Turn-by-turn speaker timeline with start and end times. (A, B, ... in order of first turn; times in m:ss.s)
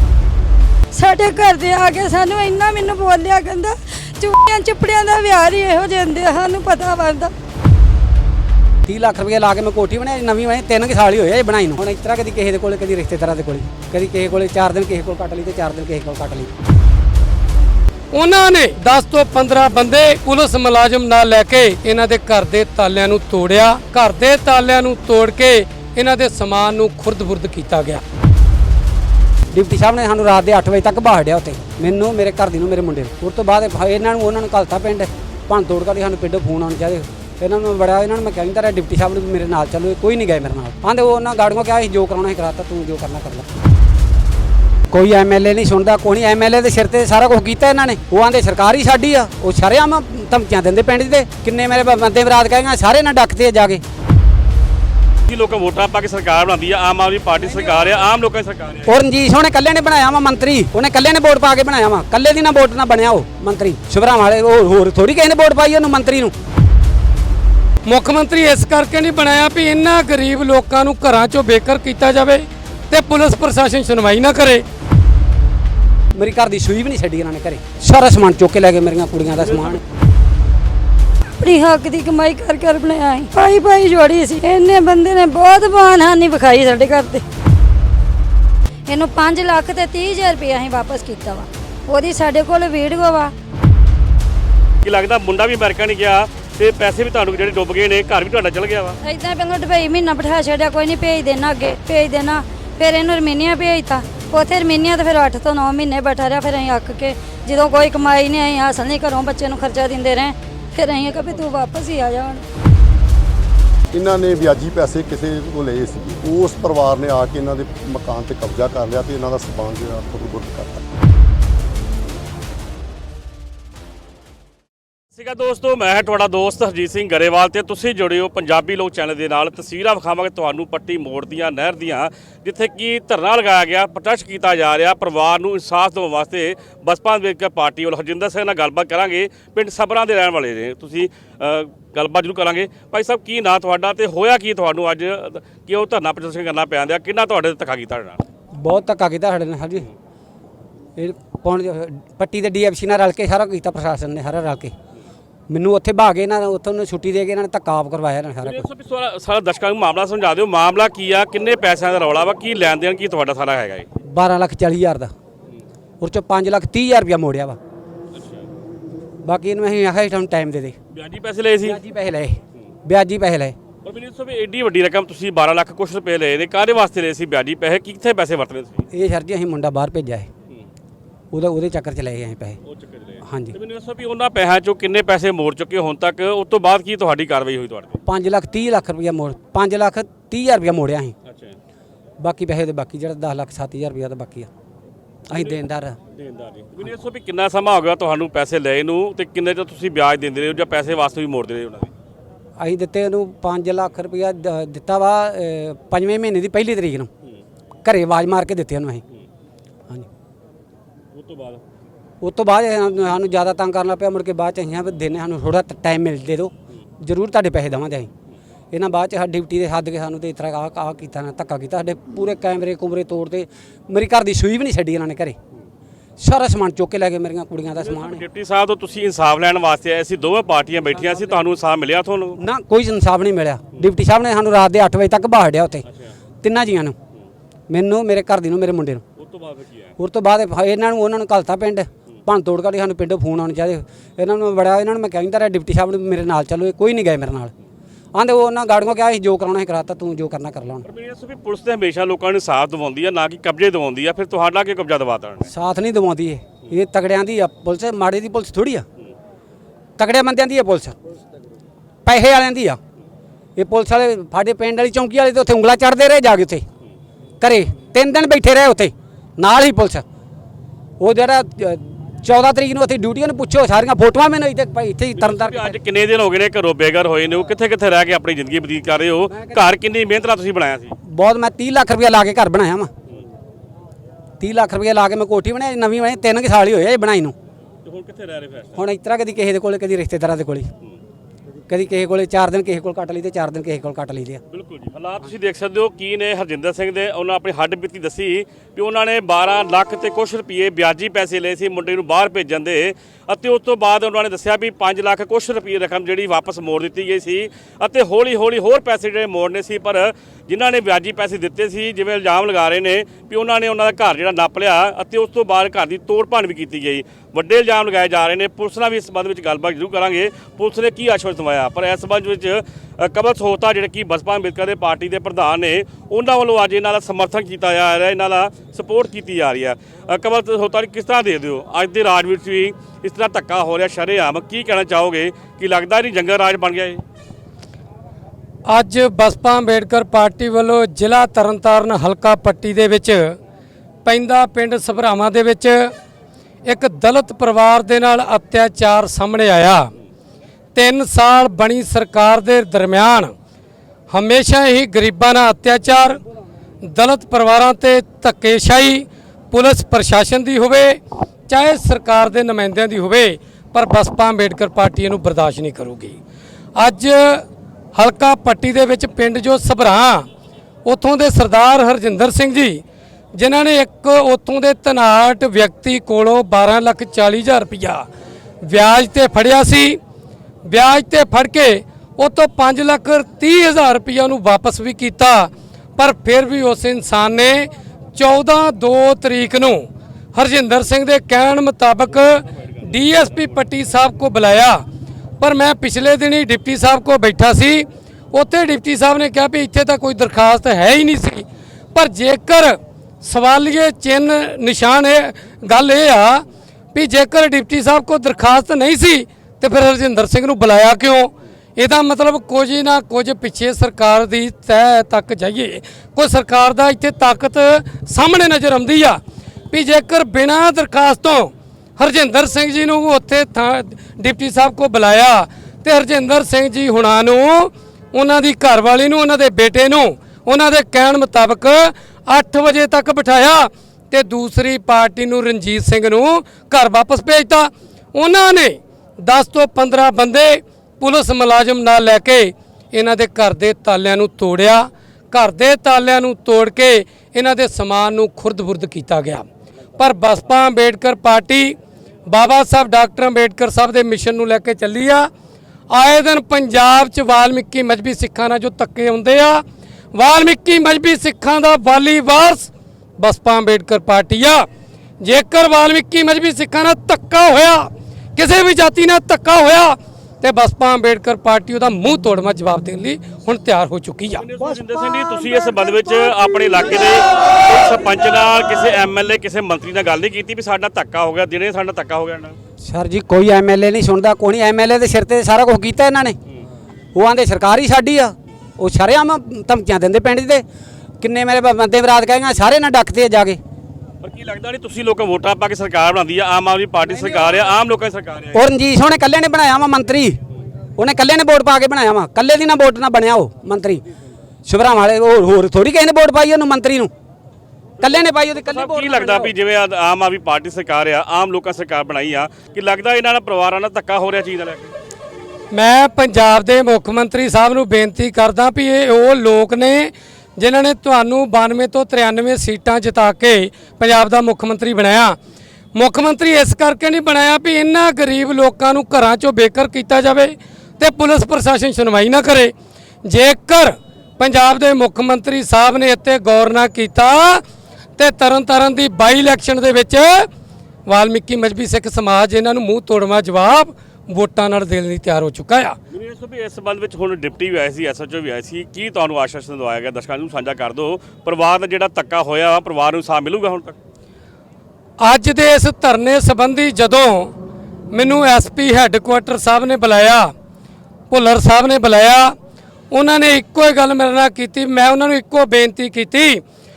0:00.9-0:07.3 A
0:08.9-0:16.5 B
0:18.1-0:28.0 C
0:29.5-0:43.4 B
0:44.9-0:53.8 B
0:55.3-0:59.0 D
0:58.9-1:06.3 B
1:07.8-1:14.6 C
1:16.2-1:19.8 B
1:21.4-1:27.2 A
1:28.9-1:33.3 A
1:34.8-1:39.0 D
1:39.0-1:52.4 A
1:53.9-2:00.8 E
2:05.1-2:28.2 D
2:28.6-2:29.9 B
2:31.0-2:34.7 B
2:35.5-2:38.7 B
2:38.4-2:43.9 D
2:44.1-2:45.1 B
2:46.0-2:47.6 B
2:48.1-2:48.5 D
2:49.2-2:50.8 B
2:50.9-2:51.8 D
2:51.6-2:53.6 B
2:53.8-2:58.9 D
2:58.9-3:00.3 B
3:01.3-3:02.6 B
3:02.6-3:08.0 D
3:03.3-3:03.6 B
3:08.1-3:11.1 B
3:11.2-3:11.6 D
3:12.2-3:14.5 B
3:15.3-3:16.0 B
3:15.3-3:15.6 D
3:16.1-3:21.9 D
3:22.6-3:27.1 B
3:27.8-3:29.0 B
3:31.1-3:31.6 D
3:32.2-3:38.1 B
3:38.7-3:45.4 B
3:46.2-3:48.2 B
3:47.8-3:52.4 D
3:52.4-3:55.8 B
3:55.9-3:56.2 D
3:56.4-3:57.0 B
3:57.7-3:59.0 B
3:59.2-3:59.9 D
4:00.0-4:07.5 B
4:08.2-4:10.8 B
4:10.8-4:15.5 D
4:15.5-4:18.8 B
4:20.0-4:21.0 B
4:22.0-4:22.8 B
4:23.6-4:26.6 B
4:27.4-4:30.0 B
4:31.0-4:35.8 B
4:35.2-4:41.0 D
4:39.3-4:39.6 B
4:41.0-4:42.9 B
4:44.4-4:47.4 B
4:47.8-4:48.8 D
4:48.8-4:50.7 B
4:51.7-4:54.4 B
4:54.5-5:37.0 D
5:38.7-5:43.4 C
5:44.0-5:45.9 C
5:46.7-5:49.9 C
5:50.8-5:53.3 C
5:54.1-5:56.2 C
5:56.8-6:06.2 C
6:06.8-6:10.3 C
6:10.8-6:12.8 C
6:13.4-6:18.1 C
6:18.6-6:20.0 C
6:20.7-6:34.8 C
6:35.4-6:59.2 C
6:59.7-7:29.4 C
7:30.0-7:35.3 C
7:35.9-7:39.6 C
7:40.1-7:44.7 C
7:45.2-7:54.4 C
7:54.4-8:02.6 D
8:02.8-8:06.4 B
8:07.2-8:10.6 B
8:11.2-8:13.6 B
8:14.2-8:18.6 D
8:18.5-8:20.4 B
8:21.0-8:24.0 B
8:24.7-8:27.1 B
8:28.0-8:34.9 D
8:28.0-8:29.5 B
8:35.7-8:45.4 C
8:46.0-8:52.7 C
8:53.2-8:57.6 C
8:58.2-9:00.5 C
9:01.1-9:06.0 C
9:06.1-9:14.0 D
9:15.2-9:17.5 C
9:18.1-9:20.5 C
9:21.3-9:22.5 C
9:23.1-9:26.6 C